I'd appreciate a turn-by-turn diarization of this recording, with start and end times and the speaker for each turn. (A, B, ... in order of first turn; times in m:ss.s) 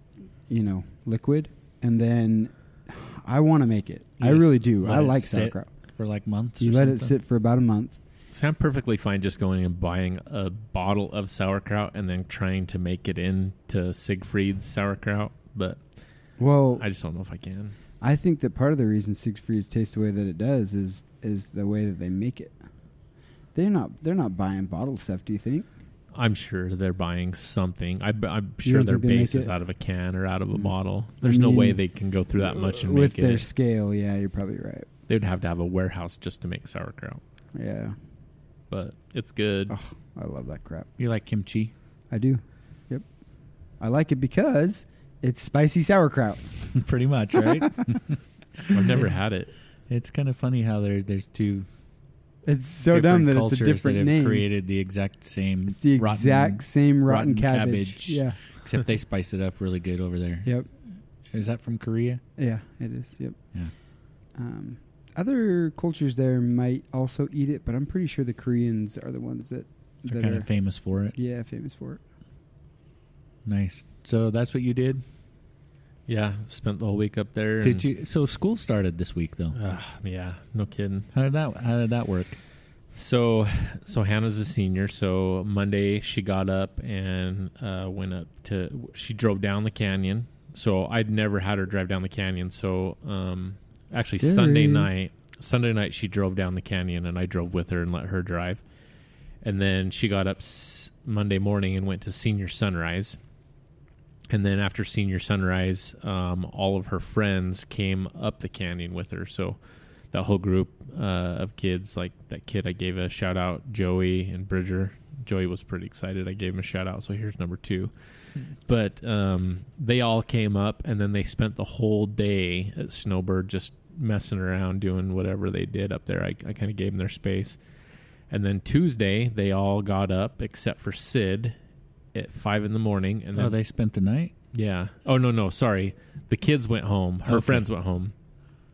0:00.5-0:05.7 A
0:04.2-0:07.2 B
0:06.6-0:08.0 A
0:08.3-0:15.8 C
0:16.4-0:16.8 A
0:16.8-0:17.8 C
0:18.0-0:22.6 A
0:23.5-0:25.7 A
0:26.1-0:33.5 C
0:28.6-0:29.5 A
0:30.5-0:31.8 A
0:32.4-0:34.9 A
0:35.1-0:37.2 C
0:37.5-0:37.9 A
0:38.7-0:39.7 C
0:39.7-0:40.9 A
0:41.0-0:41.7 B
0:42.1-0:43.0 A
0:43.8-0:46.7 A
0:46.7-0:49.1 B
0:47.4-0:47.7 A
0:48.7-0:49.5 C
0:49.9-0:51.7 B
0:52.4-0:54.5 A
0:52.9-1:00.5 B
0:55.7-0:58.4 A
1:01.3-1:02.2 B
1:02.4-1:03.4 A
1:04.3-1:10.5 A
1:10.1-1:11.1 B
1:11.1-1:12.0 A
1:13.4-1:15.0 B
1:16.1-1:17.8 C
1:17.6-1:19.6 B
1:19.6-1:21.1 C
1:21.1-1:22.4 B
1:22.9-1:38.6 C
1:34.2-1:34.9 A
1:39.4-1:43.2 C
1:44.3-1:49.6 C
1:50.1-2:07.6 C
2:08.3-2:11.6 C
2:12.1-2:13.5 C
2:13.3-2:14.3 B
2:14.5-2:18.1 C
2:17.2-2:17.6 B